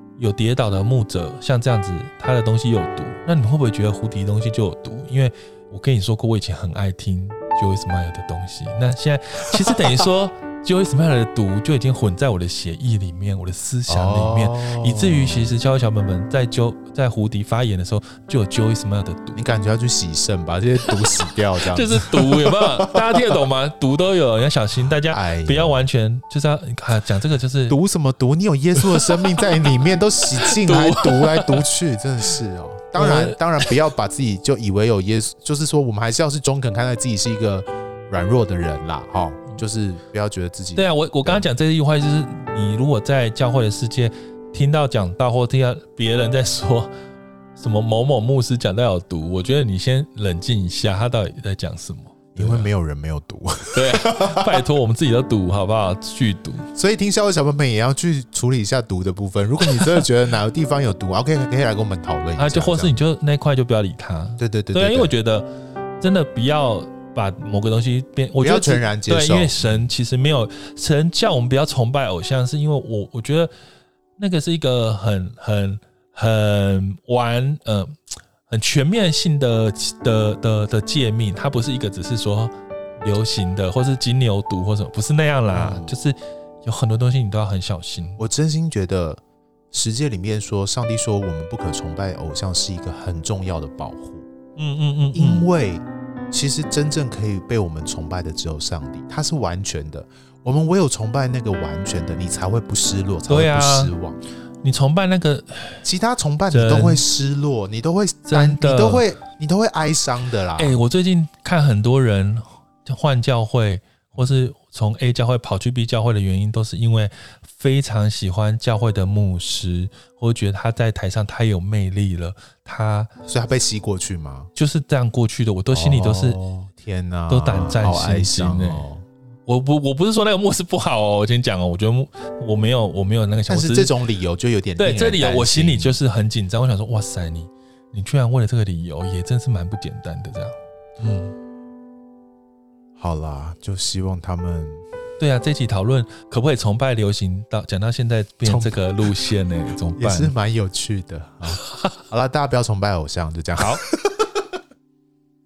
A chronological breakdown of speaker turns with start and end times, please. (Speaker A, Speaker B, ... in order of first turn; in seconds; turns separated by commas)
Speaker A: 0.2-19.4, Speaker B: 13.9-15.5, Speaker B: 19.3-23.1, Speaker A: 21.6-27.8, Speaker B: 25.1-25.8, Speaker B: 27.7-41.4, Speaker A: 30.4-31.6, Speaker A: 33.0-33.4, Speaker A: 40.7-46.9, Speaker A: 47.6-52.7, Speaker B: 52.4-54.6, Speaker A: 53.7-56.7, Speaker B: 56.7-62.9, Speaker A: 62.4-65.5, Speaker B: 64.4-65.1, Speaker A: 66.0-73.5, Speaker B: 68.4-69.9, Speaker A: 74.2-88.2, Speaker B: 85.5-85.9, Speaker B: 88.2-89.2, Speaker B: 89.7-94.3, Speaker A: 94.6-95.5, Speaker B: 95.1-104.2, Speaker A: 103.3-103.9, Speaker A: 104.6-105.8, Speaker B: 105.8-110.8, Speaker A: 106.5-107.0, Speaker A: 108.2-109.0, Speaker A: 110.6-123.1, Speaker B: 123.2-124.5, Speaker A: 124.5-126.4, Speaker B: 125.7-129.0, Speaker A: 127.3-128.9, Speaker A: 129.5-133.9, Speaker B: 133.5-136.0, Speaker A: 134.8-141.3, Speaker B: 143.0-144.8, Speaker A: 145.2-150.3, Speaker B: 148.4-148.8, Speaker B: 149.9-154.3, Speaker A: 153.6-153.8